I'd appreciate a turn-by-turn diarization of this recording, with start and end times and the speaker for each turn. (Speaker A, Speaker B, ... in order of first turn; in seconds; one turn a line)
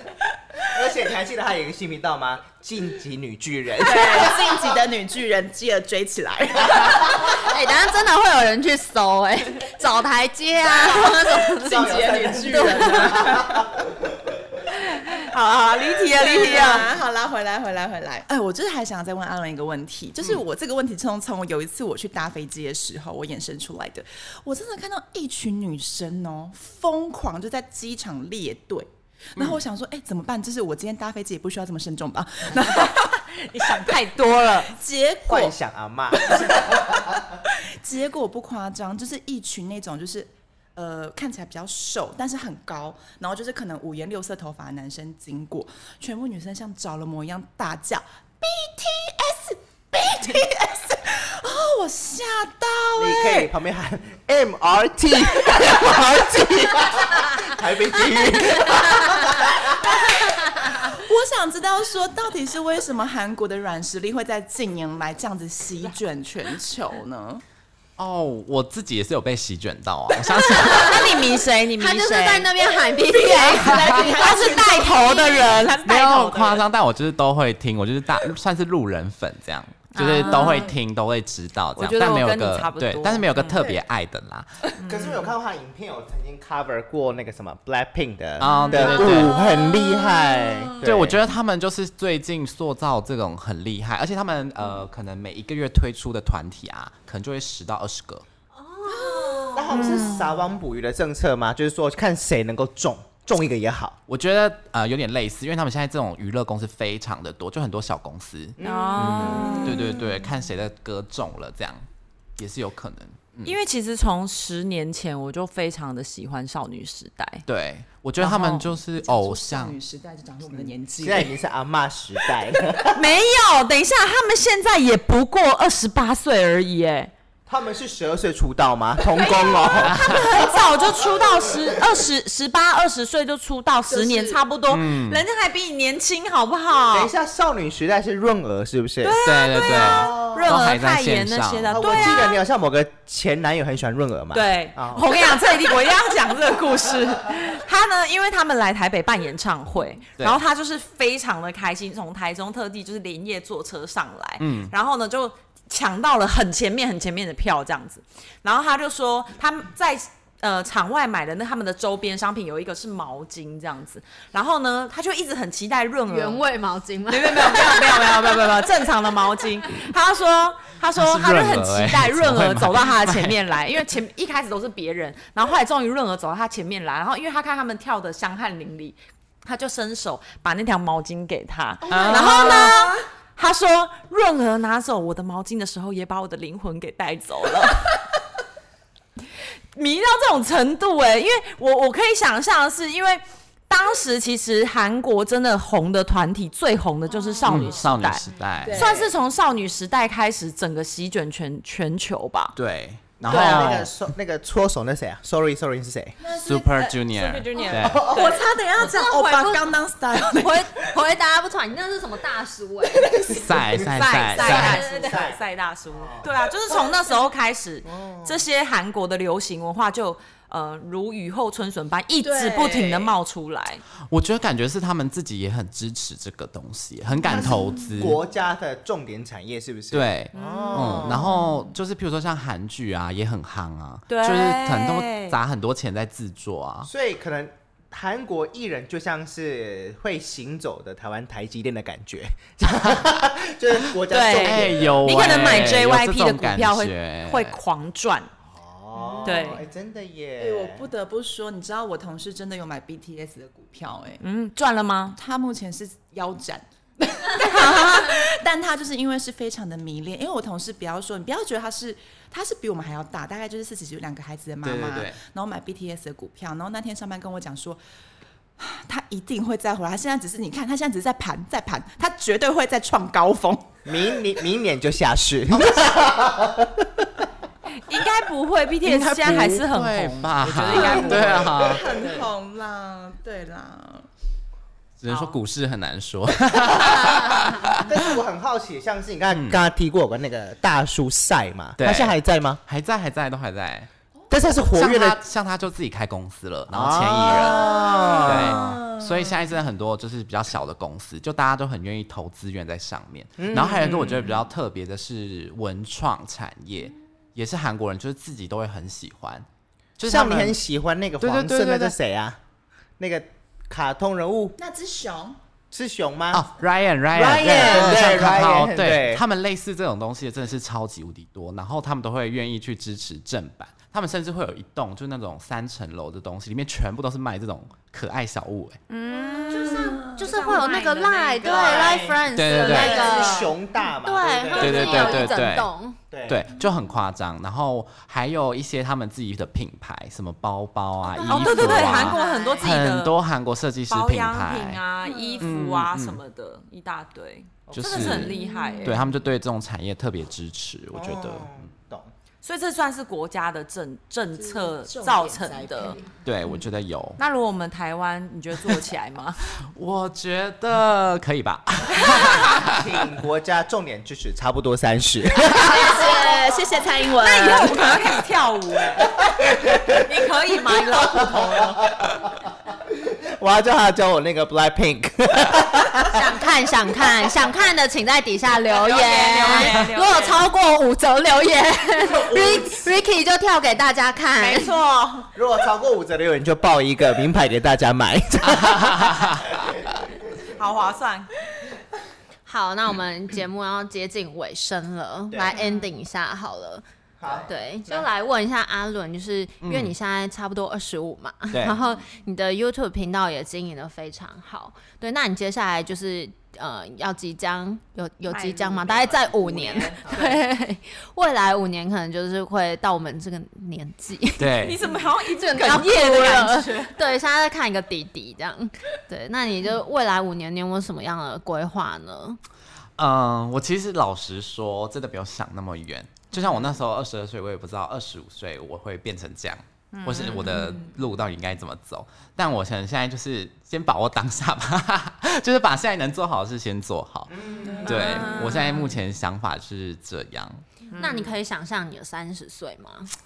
Speaker A: 0.6-4.6
Speaker B: 3.8-7.3
Speaker C: 7.1-11.9
Speaker B: 10.8-13.6
Speaker A: 11.6-13.8
Speaker C: 12.6-13.3
Speaker D: 14.9-16.9
Speaker B: 16.1-34.0
Speaker D: 32.7-34.7
Speaker B: 34.6-35.5
Speaker A: 35.2-37.0
Speaker B: 36.2-53.5
Speaker A: 53.0-60.1
Speaker B: 59.8-67.4
Speaker E: 68.0-71.1
Speaker C: 70.4-71.2
Speaker D: 70.6-72.5
Speaker C: 71.8-75.7
Speaker B: 73.1-75.8
Speaker D: 73.5-76.6
Speaker E: 73.6-74.0
Speaker E: 75.8-84.5
Speaker D: 79.9-80.7
Speaker D: 81.8-83.7
Speaker B: 83.5-83.8
Speaker D: 84.8-85.1
Speaker A: 84.8-91.2
Speaker E: 88.4-89.4
Speaker D: 88.4-89.2
Speaker B: 89.4-90.8
Speaker E: 90.8-98.2
Speaker C: 98.6-99.8
Speaker B: 98.9-100.2
Speaker A: 99.5-104.0
Speaker E: 104.1-111.8
Speaker A: 108.6-109.4
Speaker D: 108.6-109.9
Speaker B: 109.1-109.9
Speaker E: 112.4-113.5
Speaker D: 113.4-117.4
Speaker E: 117.5-119.8
Speaker D: 118.2-118.6
Speaker B: 119.0-121.3
Speaker A: 121.0-123.0
Speaker D: 122.9-127.1
Speaker A: 127.5-130.9
Speaker B: 129.2-129.8
Speaker E: 129.8-130.2
Speaker D: 130.0-137.1
Speaker B: 133.9-134.4
Speaker E: 134.7-135.2
Speaker A: 136.9-139.2
Speaker D: 139.0-142.4
Speaker E: 139.2-142.1
Speaker A: 141.7-145.3
Speaker D: 144.3-166.4
Speaker E: 154.4-154.7
Speaker C: 166.1-168.3
Speaker D: 167.1-188.0
Speaker E: 170.9-173.4
Speaker B: 181.8-183.0
Speaker E: 181.9-182.8
Speaker D: 189.7-202.6
Speaker E: 197.4-198.8
Speaker B: 198.6-199.1
Speaker E: 202.6-203.9
Speaker A: 203.2-206.2
Speaker D: 203.3-203.8
Speaker B: 206.2-206.9
Speaker E: 206.3-208.0
Speaker D: 206.7-208.5
Speaker B: 207.6-210.7
Speaker A: 207.8-208.3
Speaker C: 208.7-213.3
Speaker A: 213.0-213.8
Speaker E: 213.2-214.8
Speaker D: 213.7-223.8
Speaker A: 214.4-215.4
Speaker C: 214.4-215.2
Speaker A: 215.9-216.2
Speaker A: 217.9-218.4
Speaker B: 222.2-223.1
Speaker E: 224.1-228.2
Speaker A: 227.2-231.2
Speaker E: 229.9-236.9
Speaker D: 230.3-231.4
Speaker B: 230.5-230.8
Speaker D: 234.1-235.3
Speaker A: 236.8-245.7
Speaker D: 244.1-248.3
Speaker E: 244.4-247.6
Speaker A: 248.5-250.9
Speaker D: 249.2-249.6
Speaker B: 250.4-254.2
Speaker D: 254.2-255.2
Speaker B: 255.1-267.8
Speaker D: 257.4-258.2
Speaker E: 264.6-265.2
Speaker B: 268.6-273.8
Speaker A: 273.8-277.2
Speaker E: 275.5-275.9
Speaker D: 277.7-282.3
Speaker E: 278.8-281.8
Speaker B: 280.7-284.1
Speaker E: 285.0-288.1
Speaker D: 285.1-285.4
Speaker A: 287.8-292.6
Speaker E: 289.3-289.6
Speaker E: 291.8-293.9
Speaker A: 294.3-295.2
Speaker E: 294.7-309.4
Speaker A: 296.7-298.8
Speaker B: 297.4-299.2
Speaker A: 303.4-304.3
Speaker E: 310.0-310.6
Speaker A: 310.1-312.4
Speaker E: 311.2-311.9
Speaker A: 313.0-314.6
Speaker B: 314.6-315.4
Speaker A: 315.7-316.4
Speaker E: 316.3-328.8
Speaker A: 317.1-319.2
Speaker D: 328.9-333.5
Speaker B: 329.1-330.5
Speaker C: 329.5-336.0
Speaker A: 331.4-335.3
Speaker E: 332.3-333.0
Speaker E: 334.6-335.7
Speaker A: 336.1-336.4
Speaker E: 336.3-344.8
Speaker C: 341.1-342.7
Speaker D: 341.2-343.1
Speaker D: 343.9-349.1
Speaker B: 345.0-345.5
Speaker E: 345.4-346.2
Speaker A: 347.7-348.2
Speaker E: 347.7-351.6
Speaker B: 348.2-349.0
Speaker A: 350.9-352.1
Speaker D: 352.4-356.0
Speaker B: 354.3-356.1
Speaker E: 356.2-357.2
Speaker D: 357.2-359.5
Speaker E: 359.5-362.9
Speaker D: 361.9-362.4
Speaker A: 362.4-366.1
Speaker B: 365.4-368.2
Speaker D: 365.8-366.2
Speaker D: 367.1-371.9
Speaker A: 371.1-372.3
Speaker A: 373.4-376.2
Speaker C: 376.0-384.7
Speaker D: 378.7-380.4
Speaker A: 382.1-382.8
Speaker D: 384.4-385.3
Speaker A: 385.3-390.0
Speaker E: 388.5-389.4
Speaker D: 390.5-391.3
Speaker C: 392.4-414.6
Speaker A: 395.3-395.6
Speaker A: 397.2-398.1
Speaker E: 399.6-399.9
Speaker E: 401.5-401.8
Speaker D: 408.3-410.4
Speaker E: 414.4-414.8
Speaker D: 414.6-417.0
Speaker C: 415.4-422.4
Speaker E: 423.0-440.6
Speaker D: 429.9-430.8
Speaker A: 437.3-438.0
Speaker B: 437.7-438.3
Speaker D: 437.8-438.9
Speaker D: 440.9-441.3
Speaker C: 441.0-443.1